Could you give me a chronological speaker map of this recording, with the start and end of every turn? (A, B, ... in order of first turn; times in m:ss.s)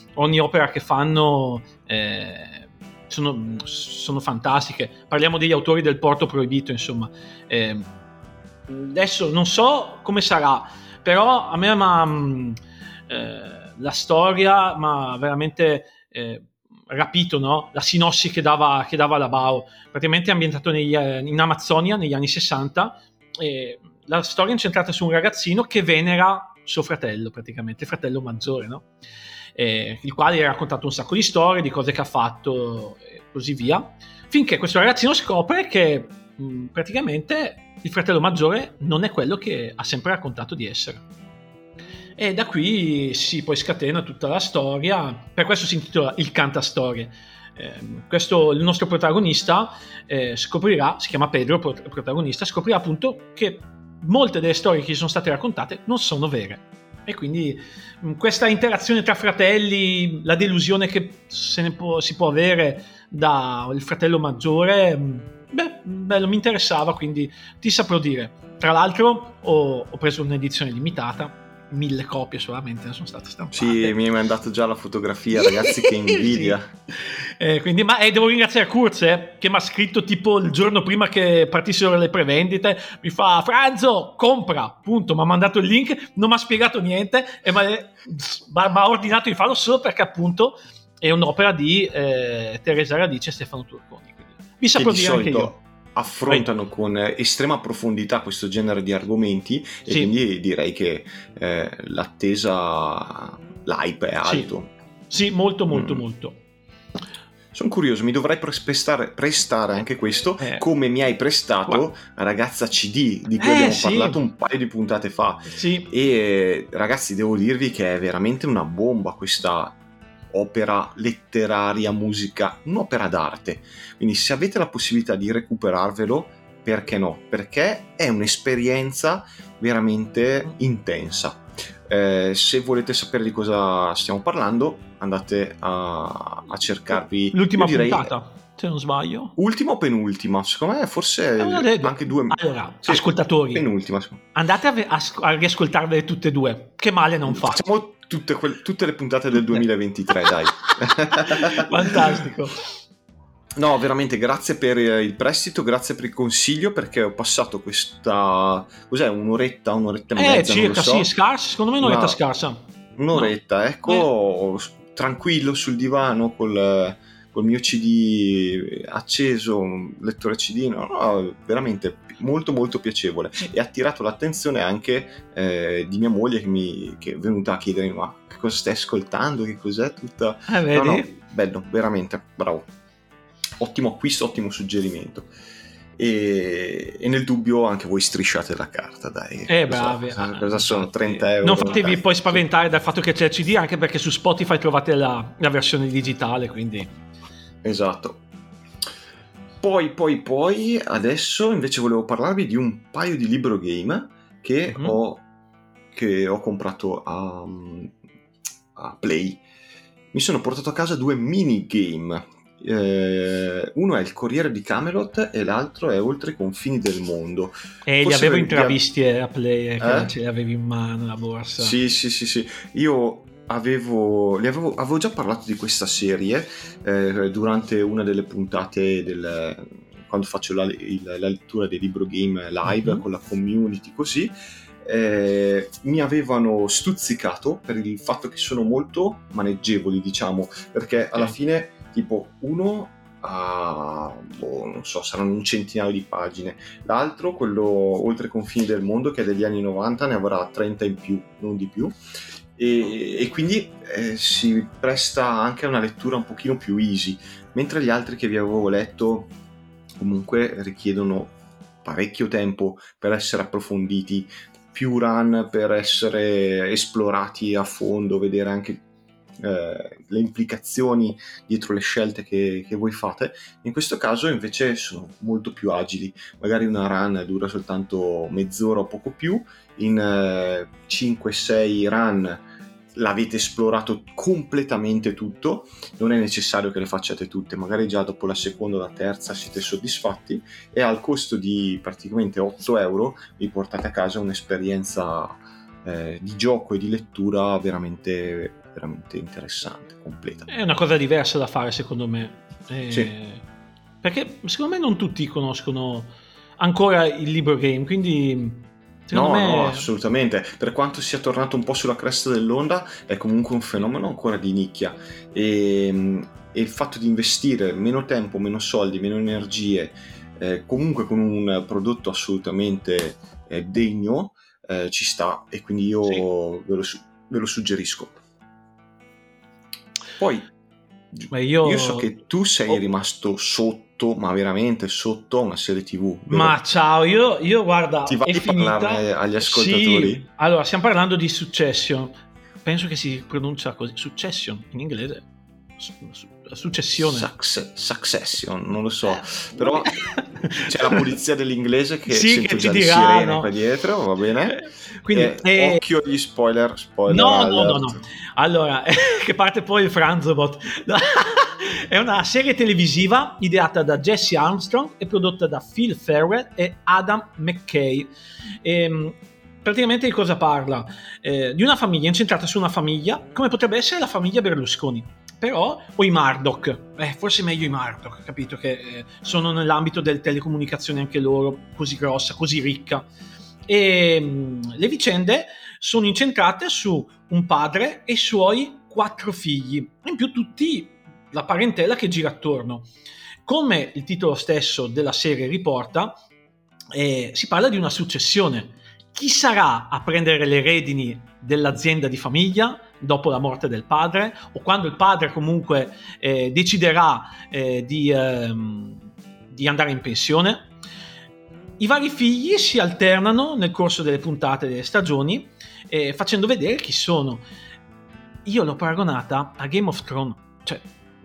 0:00.2-0:07.9 A
0:08.7-0:28.9 A
0:29.6-0:41.0 A
0:42.2-1:14.0 A
1:13.5-1:16.7 B
1:15.3-1:35.5 A
1:34.7-1:44.7 B
1:39.9-1:40.1 A
1:44.2-1:44.5 A
1:45.1-1:46.4 A
1:45.7-1:46.0 B
1:47.5-1:59.8 B
1:50.4-1:50.6 A
1:53.4-1:54.2 A
1:55.5-1:55.9 A
2:00.3-2:18.1 B
2:17.3-2:19.4 A
2:19.4-2:24.2 B
2:21.4-2:23.6 A
2:24.3-2:27.7 A
2:27.2-2:32.2 B
2:30.7-2:32.7 A
2:33.6-2:41.1 B
2:40.2-2:42.6 A
2:41.8-2:42.2 B
2:43.0-3:02.7 B
3:00.5-3:01.2 A
3:03.6-3:05.3 B
3:06.0-3:12.4 B
3:09.5-3:16.9 A
3:17.6-3:18.2 B
3:19.6-3:25.2 B
3:24.7-3:25.0 A
3:25.9-3:27.9 B
3:28.8-3:29.4 B
3:30.1-3:38.8 B
3:37.8-3:41.7 A
3:39.8-3:40.1 B
3:41.6-4:11.9 B
3:52.6-3:53.0 A
4:12.6-4:19.3 B
4:20.0-4:28.8 B
4:29.4-4:42.4 B
4:42.9-4:55.3 B
4:55.8-5:00.5 B
5:00.5-5:03.4 A
5:04.0-5:09.9 A
5:09.1-5:28.2 B
5:30.2-5:30.5 B
5:31.1-5:36.6 B
5:31.3-5:32.1 A
5:36.3-5:45.3 A
5:38.0-5:40.2 B
5:45.8-5:47.3 A
5:47.0-5:58.0 B
5:49.6-5:51.0 A
5:52.1-5:53.5 A
5:54.6-5:55.8 A
5:57.1-6:08.1 A
6:08.6-6:23.1 A
6:23.7-6:32.9 A
6:33.4-6:36.2 A
6:36.9-6:50.7 A
6:51.8-6:57.4 A
6:58.4-7:00.8 A